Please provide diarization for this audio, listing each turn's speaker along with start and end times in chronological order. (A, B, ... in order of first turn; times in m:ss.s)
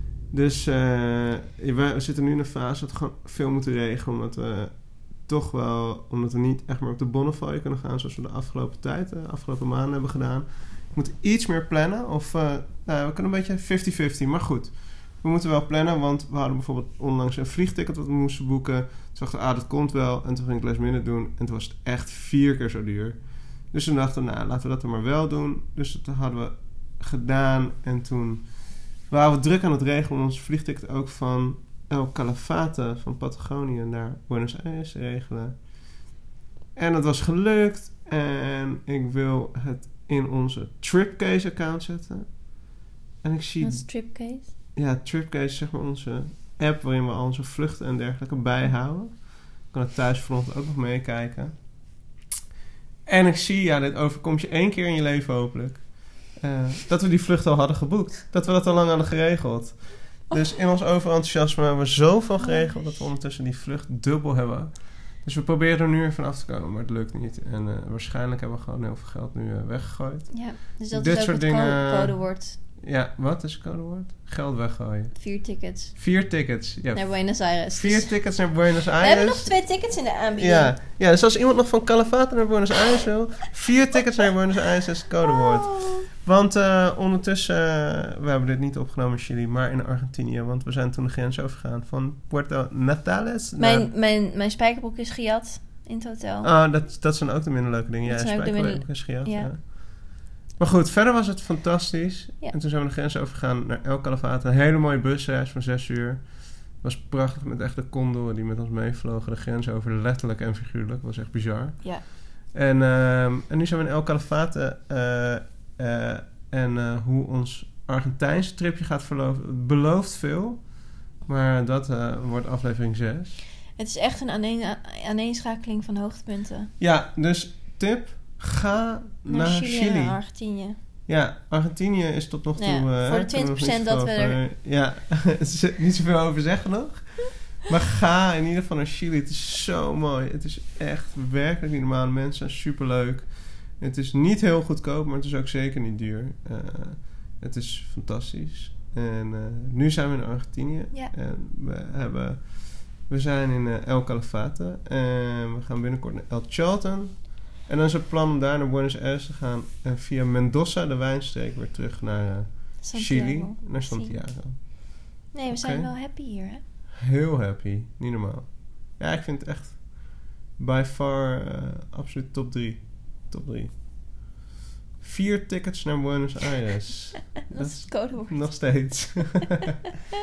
0:00.3-0:35.7 A
0:36.8-0:42.6 A
0:43.2-0:43.9 A
0:43.6-0:44.5 B
0:44.8-0:51.6 A
0:53.1-1:12.2 A
1:02.4-1:02.8 B
1:10.3-1:12.6 B
1:12.8-1:15.2 A
1:15.2-1:16.0 B
1:16.0-1:19.6 A
1:16.9-1:18.3 B
1:19.0-1:20.8 B
1:20.4-1:33.9 A
1:25.4-1:26.1 B
1:33.6-1:36.5 B
1:36.4-2:03.4 A
1:38.0-1:39.5 B
2:03.8-2:06.7 B
2:06.8-2:10.3 A
2:09.3-2:10.8 B
2:11.1-2:44.7 A
2:12.6-2:14.4 B
2:42.8-2:44.2 B
2:45.3-2:46.6 B
2:45.5-2:45.9 A
2:47.0-2:53.8 A
2:55.0-2:59.6 A
2:57.5-2:59.0 B